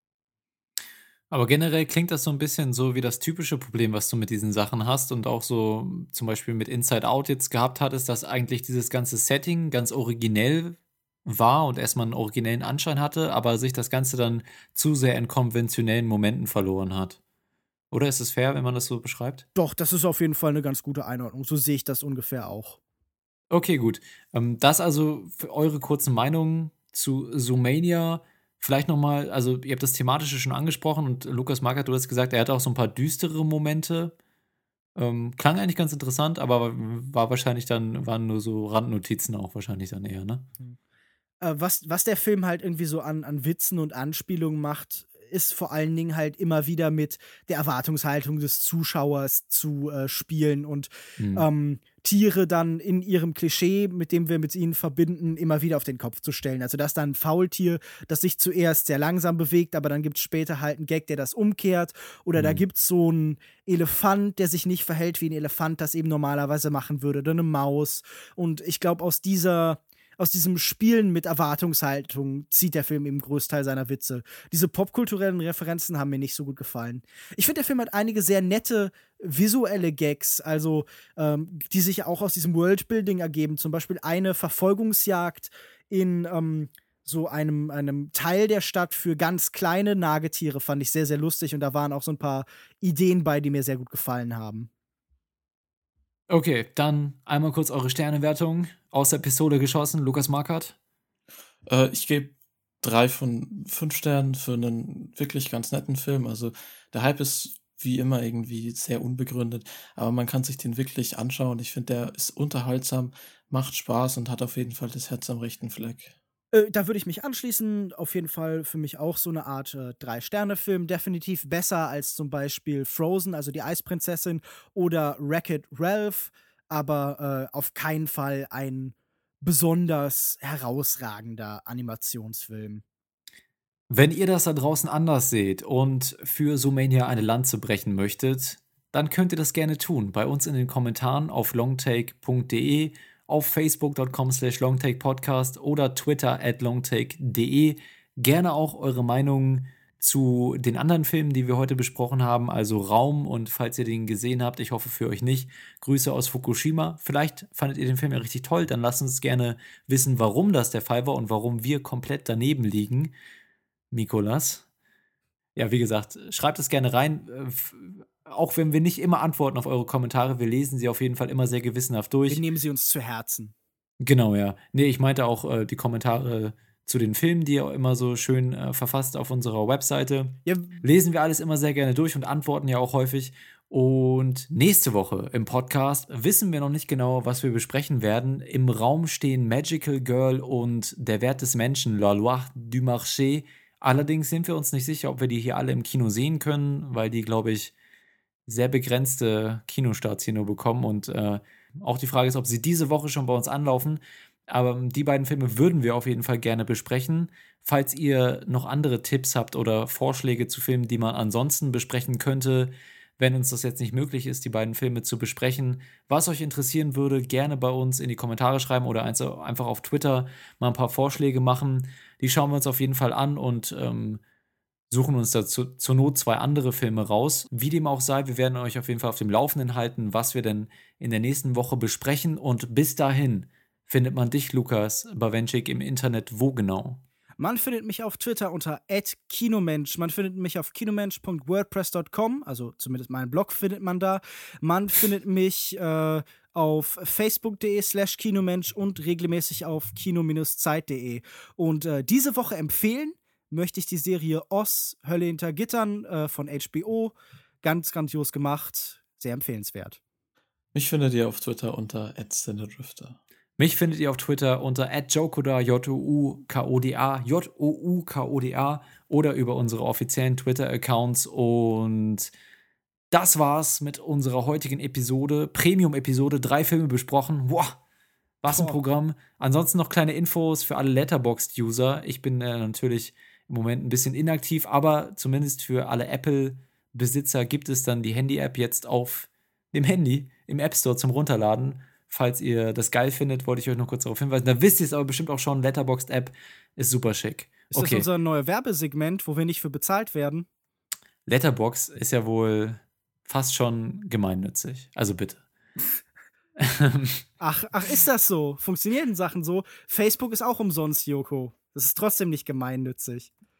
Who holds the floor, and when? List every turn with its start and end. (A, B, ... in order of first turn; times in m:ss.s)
0:01.3-0:17.2 A
0:17.9-0:19.4 A
0:19.6-0:22.8 B
0:23.5-0:34.1 A
0:35.0-0:40.4 A
0:41.4-1:34.7 B
0:51.2-0:51.4 A
1:02.4-1:02.6 A
1:36.3-1:40.8 A
1:41.7-1:56.1 C
1:56.5-2:12.8 B
2:13.9-2:43.1 A
2:43.9-2:44.6 A
2:45.6-2:52.4 A
2:52.3-2:53.5 B
2:54.0-3:17.7 A
3:00.4-3:00.8 B
3:18.5-3:44.2 A
3:44.9-3:57.0 A
3:57.4-4:20.0 B
4:20.7-4:23.2 C
4:23.6-4:32.3 A
4:33.1-4:37.8 A
4:38.4-4:58.0 A
4:38.5-4:38.8 B
4:57.7-5:00.5 B
5:01.3-5:05.4 A
5:06.6-5:07.2 A
5:07.4-5:13.3 B